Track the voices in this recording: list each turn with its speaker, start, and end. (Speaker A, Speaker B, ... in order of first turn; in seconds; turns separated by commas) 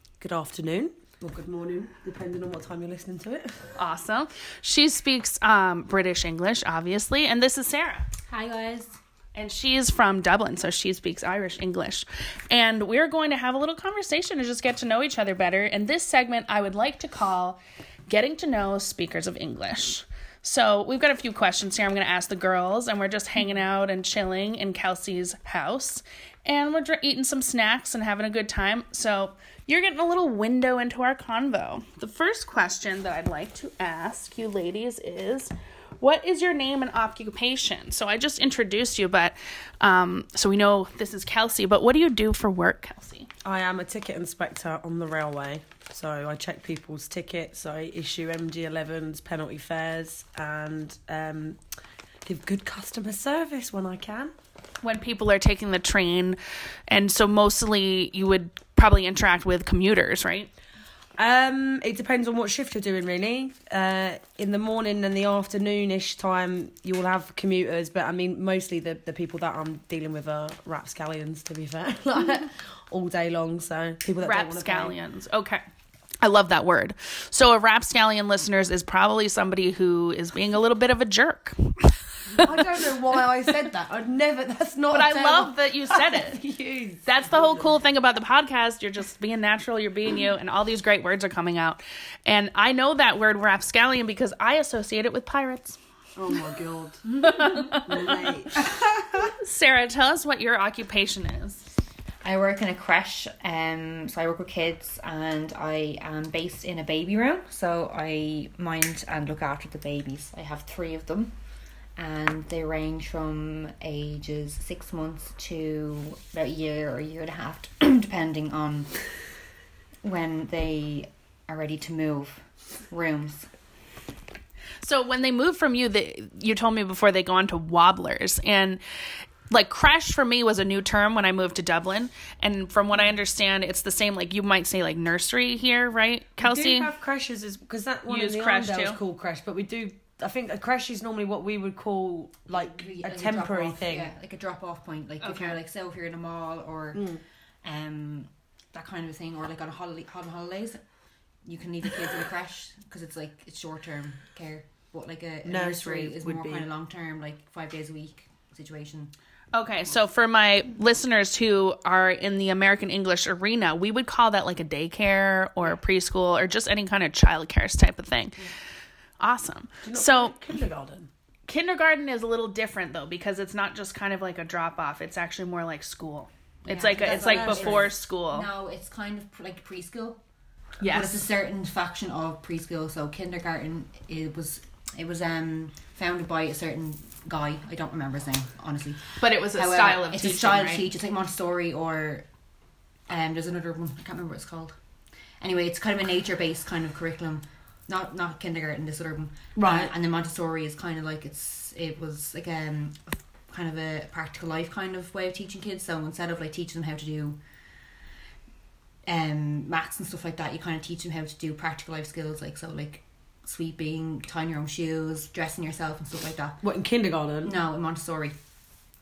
Speaker A: 0.2-3.5, Speaker B: 3.8-8.1, Speaker C: 8.3-8.9, Speaker B: 9.3-43.3, Speaker A: 43.4-51.6, Speaker A: 52.2-54.3, Speaker B: 54.8-56.4, Speaker B: 56.9-60.5, Speaker A: 61.2-75.0, Speaker B: 74.2-75.6, Speaker B: 76.2-82.5, Speaker A: 82.4-87.7, Speaker B: 84.9-86.4, Speaker B: 87.0-95.8, Speaker A: 96.2-98.6, Speaker B: 97.2-98.4, Speaker B: 99.1-101.7, Speaker C: 102.2-111.3, Speaker C: 112.0-118.9, Speaker C: 120.0-122.4, Speaker C: 122.9-123.5, Speaker B: 124.8-128.8, Speaker B: 129.5-136.9, Speaker A: 136.4-144.1, Speaker B: 138.1-139.0, Speaker C: 142.6-147.1, Speaker B: 145.2-145.6, Speaker A: 146.9-147.2, Speaker C: 147.6-150.8, Speaker C: 151.4-159.1, Speaker A: 155.4-156.7, Speaker B: 159.5-168.5, Speaker B: 169.2-170.4, Speaker A: 169.8-171.1, Speaker B: 171.5-178.5, Speaker C: 176.6-180.2, Speaker A: 177.0-177.9, Speaker B: 180.8-181.2, Speaker C: 180.9-192.2, Speaker B: 189.2-190.9, Speaker C: 193.1-194.8, Speaker C: 195.4-207.4, Speaker A: 199.6-199.9, Speaker C: 209.1-216.6, Speaker A: 216.6-217.6, Speaker C: 217.4-218.3